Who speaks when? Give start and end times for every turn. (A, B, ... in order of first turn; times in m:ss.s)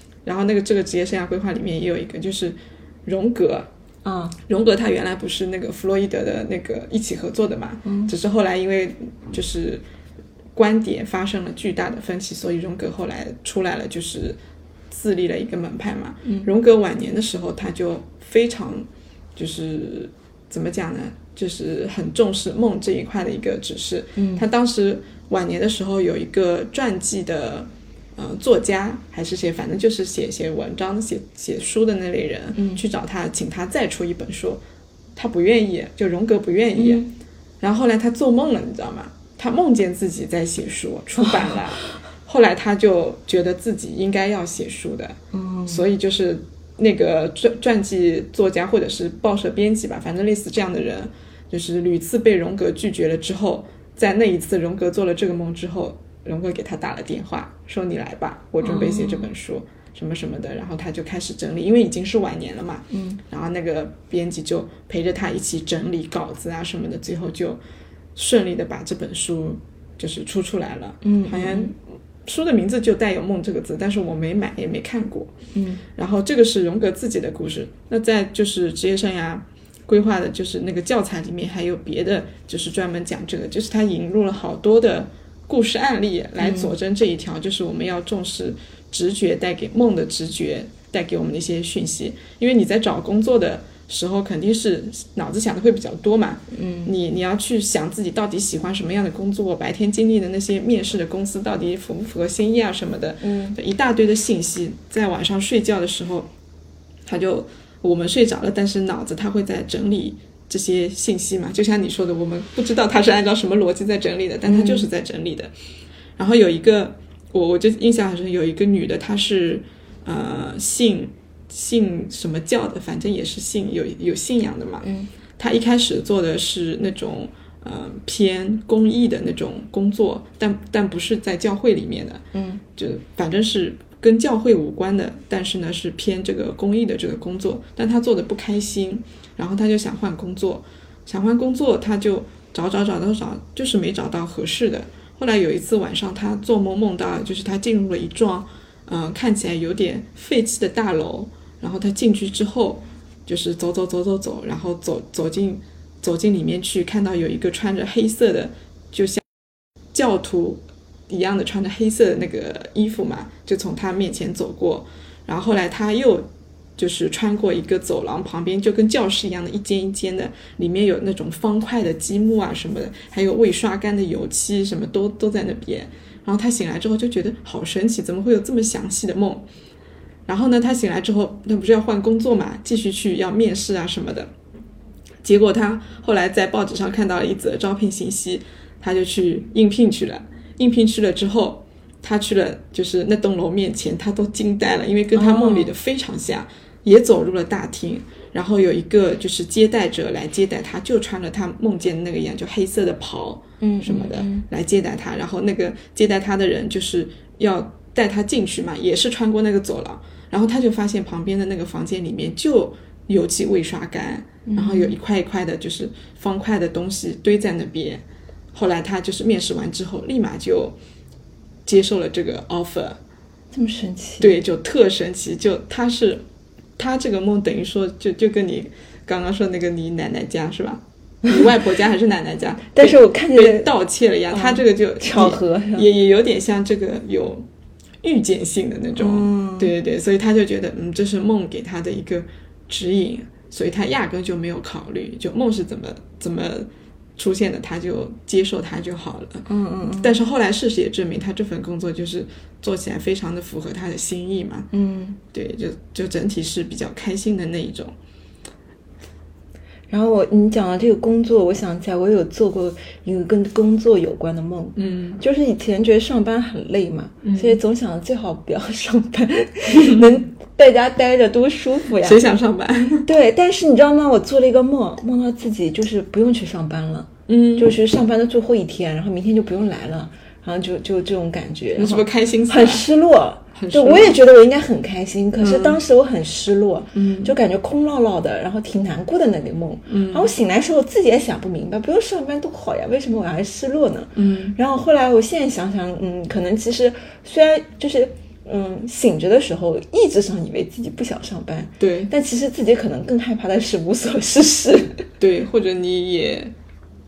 0:00.2-0:03.7 A
0:04.0-0:04.4 B
0:04.5-0:09.8 A
0:07.8-0:08.1 B
0:10.5-0:14.4 A
0:14.9-0:34.6 A
0:24.2-0:24.5 B
0:32.5-0:32.8 B
0:35.2-0:37.0 A
0:36.8-0:37.1 B
0:37.6-1:07.6 A
0:41.2-0:41.6 B
0:45.3-0:45.8 B
0:58.6-0:59.3 B
1:02.9-1:03.2 B
1:08.1-1:15.3 A
1:11.0-1:11.7 B
1:15.5-1:15.8 B
1:15.9-1:46.3 A
1:26.4-1:26.7 B
1:36.5-1:36.9 B
1:43.2-1:43.6 B
1:47.0-1:55.5 A
1:54.4-1:54.9 B
1:56.2-2:04.8 A
2:04.8-2:05.1 B
2:05.4-2:12.2 A
2:12.3-2:12.6 B
2:12.8-2:39.2 A
2:39.9-2:59.5 A
3:00.2-3:04.3 A
3:05.2-3:40.8 A
3:15.1-3:15.7 B
3:23.6-3:24.4 B
3:34.4-3:35.0 B
3:41.6-3:43.0 A
3:43.5-3:44.3 B
3:44.2-3:46.2 A
3:46.8-3:57.4 A
3:52.7-3:53.7 B
3:54.3-3:55.9 B
3:58.0-4:09.4 A
3:59.0-3:59.7 B
4:09.4-4:10.2 B
4:10.0-4:14.7 A
4:14.7-4:15.2 B
4:15.3-4:17.9 A
4:19.9-4:32.2 B
4:24.8-4:25.2 A
4:27.2-4:27.6 A
4:29.7-4:30.0 A
4:32.0-4:33.1 A
4:33.0-5:05.1 B
4:37.3-4:37.8 A
4:41.8-4:42.8 A
4:43.5-4:44.2 A
4:45.4-4:45.8 A
4:46.9-4:47.3 A
4:49.9-4:50.3 A
4:54.1-4:54.6 A
5:01.8-5:02.1 A
5:05.2-5:06.5 A